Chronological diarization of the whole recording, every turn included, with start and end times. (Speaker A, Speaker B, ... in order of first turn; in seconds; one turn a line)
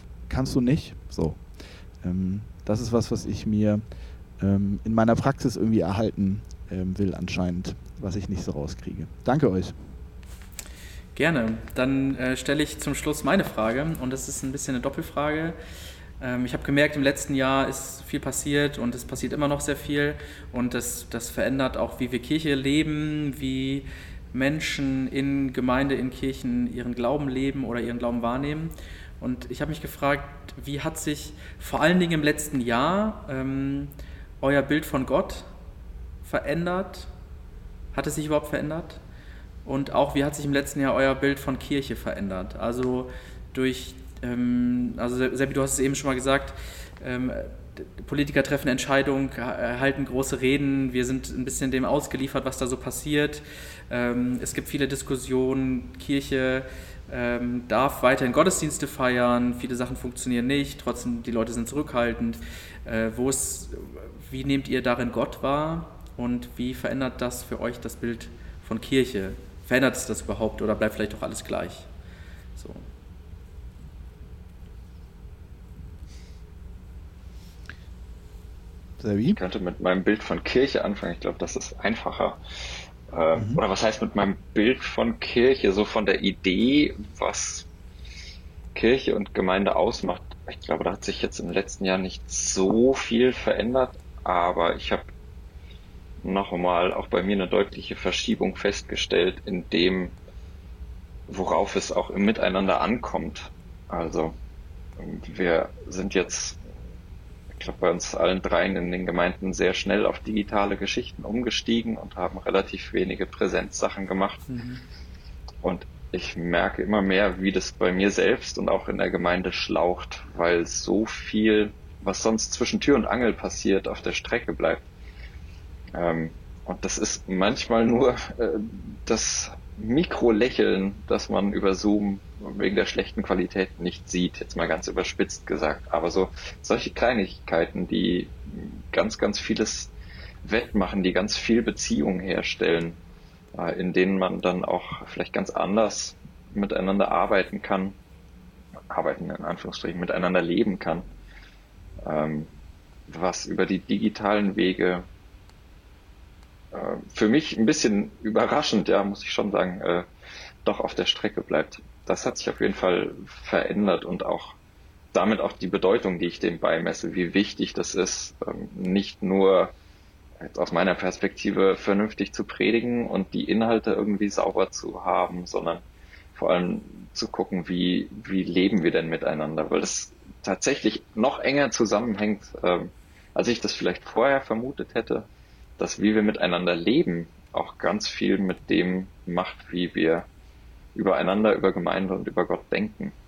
Speaker A: 0.3-1.4
Speaker A: 2.0-3.8
Speaker A: 4.4-9.8
Speaker B: 11.2-15.6
Speaker B: 16.2-35.5
Speaker B: 36.2-37.1
Speaker B: 37.9-39.0
Speaker B: 39.6-71.9
Speaker B: 72.6-72.9
Speaker A: 79.0-79.4
Speaker C: 79.2-82.4
Speaker C: 83.1-87.7
Speaker A: 83.3-83.6
Speaker C: 88.8-95.1
Speaker C: 96.2-100.1
Speaker C: 101.3-104.4
Speaker C: 105.0-106.6
Speaker C: 107.5-114.5
Speaker B: 114.5-114.8
Speaker C: 115.6-124.9
Speaker C: 125.9-139.9
Speaker C: 140.4-143.0
Speaker C: 143.5-148.0
Speaker C: 148.9-151.1
Speaker C: 152.0-152.5
Speaker C: 153.1-155.1
Speaker C: 156.7-160.1
Speaker C: 160.7-164.6
Speaker C: 165.1-169.7
Speaker C: 170.4-175.8
Speaker C: 176.3-185.3
Speaker C: 185.8-190.3
Speaker C: 190.9-193.1